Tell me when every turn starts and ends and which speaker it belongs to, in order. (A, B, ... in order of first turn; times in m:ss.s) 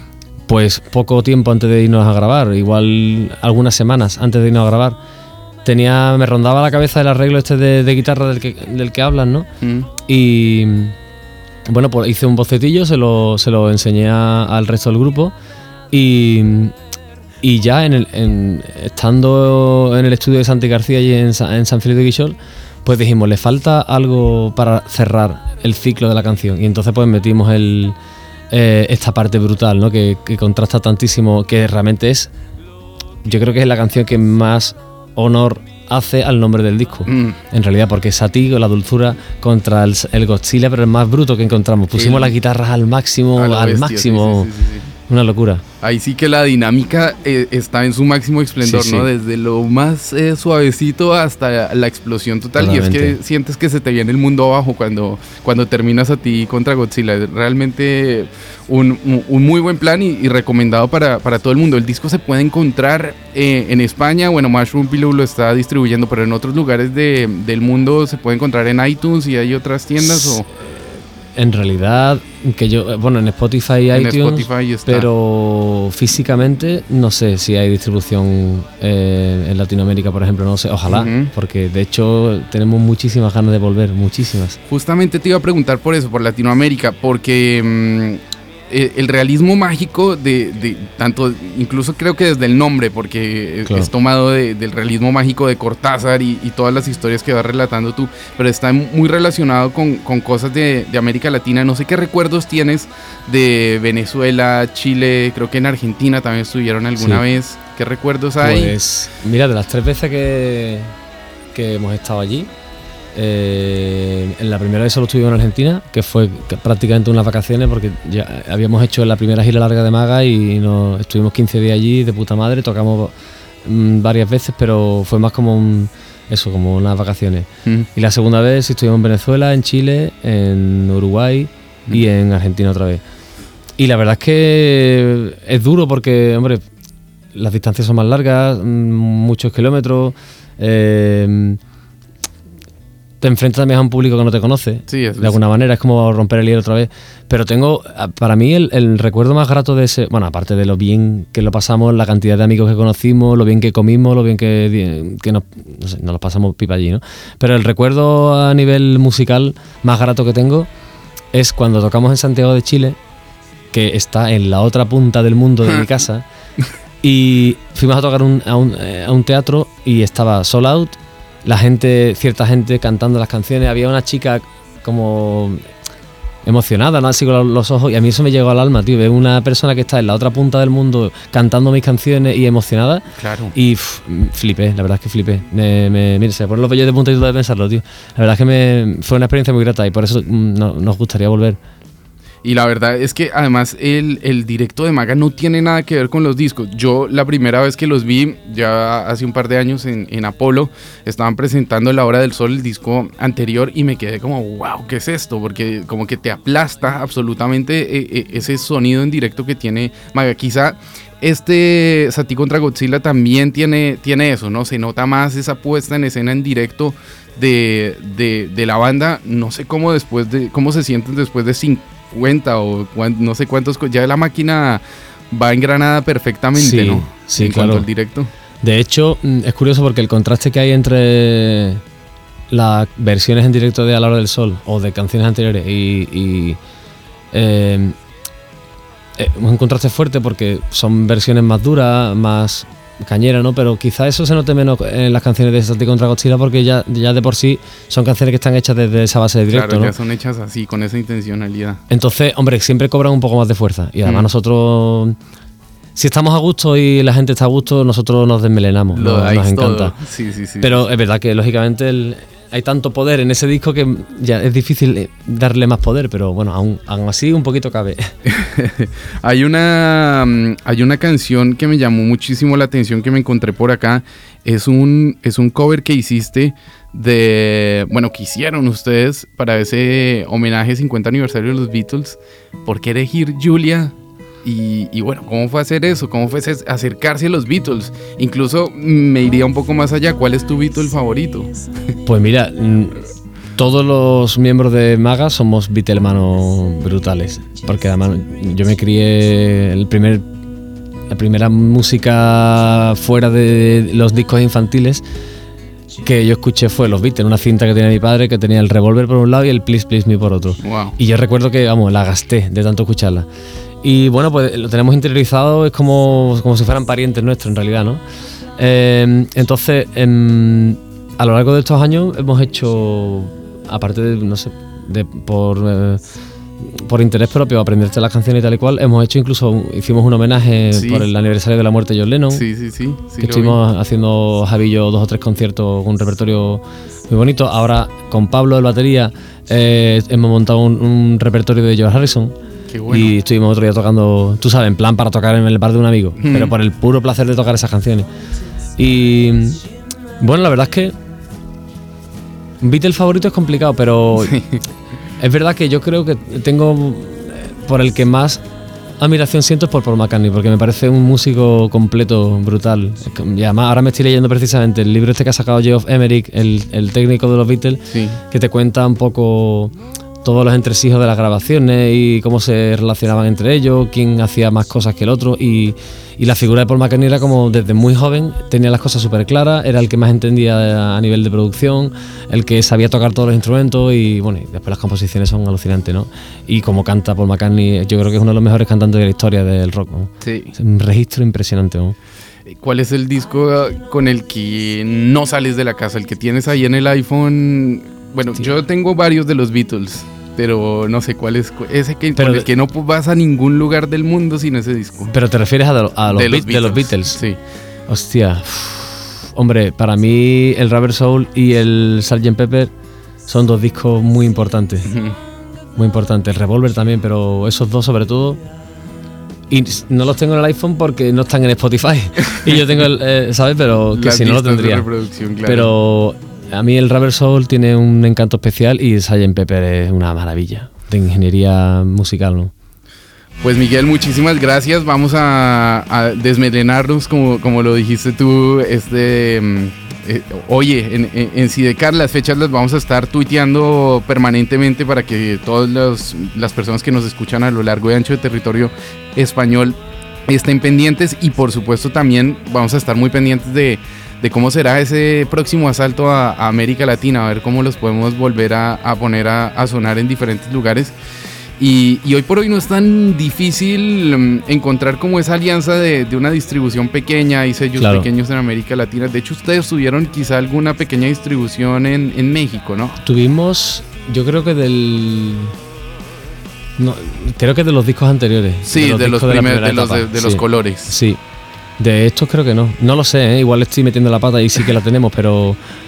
0:00.5-0:05.0 A
0:05.6-0:09.5 A
0:09.6-0:09.9 B
0:10.0-0:10.9 A
0:11.7-0:15.3 A
0:15.9-0:16.7 A
0:17.4-0:28.0 A
0:28.5-0:32.3 A
0:33.2-0:44.5 A
0:37.1-0:37.4 B
0:41.9-0:42.3 B
0:43.4-0:44.9 B
0:45.1-0:45.6 A
0:45.8-1:10.4 B
0:48.6-0:49.1 A
0:52.6-0:53.2 A
1:10.0-1:24.6 A
1:13.9-1:15.1 B
1:20.9-1:21.3 B
1:24.7-1:48.8 B
1:47.0-1:47.2 A
1:48.4-1:50.9 A
1:51.5-1:52.5 A
1:53.1-2:03.1 A
2:03.6-2:13.0 A
2:13.8-2:16.6 A
2:17.3-2:21.6 A
2:23.2-2:40.7 A
2:24.9-2:25.4 B
2:41.3-2:43.0 A
2:43.7-2:46.2 A
2:47.0-2:55.6 A
2:56.4-3:11.6 A
3:03.2-3:03.5 B
3:12.4-3:48.3 B
3:46.6-3:47.8 A
3:48.6-3:51.8 A
3:52.5-3:56.6 A
3:57.3-3:58.0 A
3:59.2-4:09.9 A
4:09.5-4:11.8 B
4:11.9-4:15.2 A
4:16.0-4:19.9 A
4:18.9-4:20.8 B
4:20.6-4:28.1 A
4:28.3-4:43.9 B
4:44.4-4:51.5 B
4:52.0-5:00.2 A
5:01.1-5:05.0 A
5:06.0-5:13.3 A
5:10.6-5:10.9 B
5:13.8-5:18.0 A
5:18.6-5:26.0 A
5:26.6-5:32.4 A
5:30.7-5:31.0 B
5:32.3-5:33.6 B
5:33.2-5:42.4 A
5:42.7-5:43.2 B
5:42.9-5:48.1 A
5:46.2-5:46.5 B
5:48.8-5:49.6 A
5:50.2-5:50.9 A
5:52.6-5:54.3 A
5:54.2-5:54.6 B
5:55.2-5:58.4 A
5:59.0-6:32.0 A
6:07.9-6:08.2 B
6:30.2-6:30.5 B
6:32.5-6:45.1 B
6:42.2-6:42.5 A
6:45.1-6:47.2 A
6:46.1-6:47.4 B
6:47.9-6:52.7 A
6:53.3-6:54.9 A
6:54.9-6:55.1 B
6:55.8-6:58.4 A
6:59.5-7:04.8 A
7:03.9-7:05.7 B
7:05.4-7:12.5 A
7:13.4-7:29.8 B
7:30.3-7:40.9 B
7:41.6-7:53.0 B
7:47.8-7:48.1 A
7:53.0-7:55.5 A
7:56.8-8:01.2 A
7:58.7-8:00.9 B
8:01.8-8:05.6 A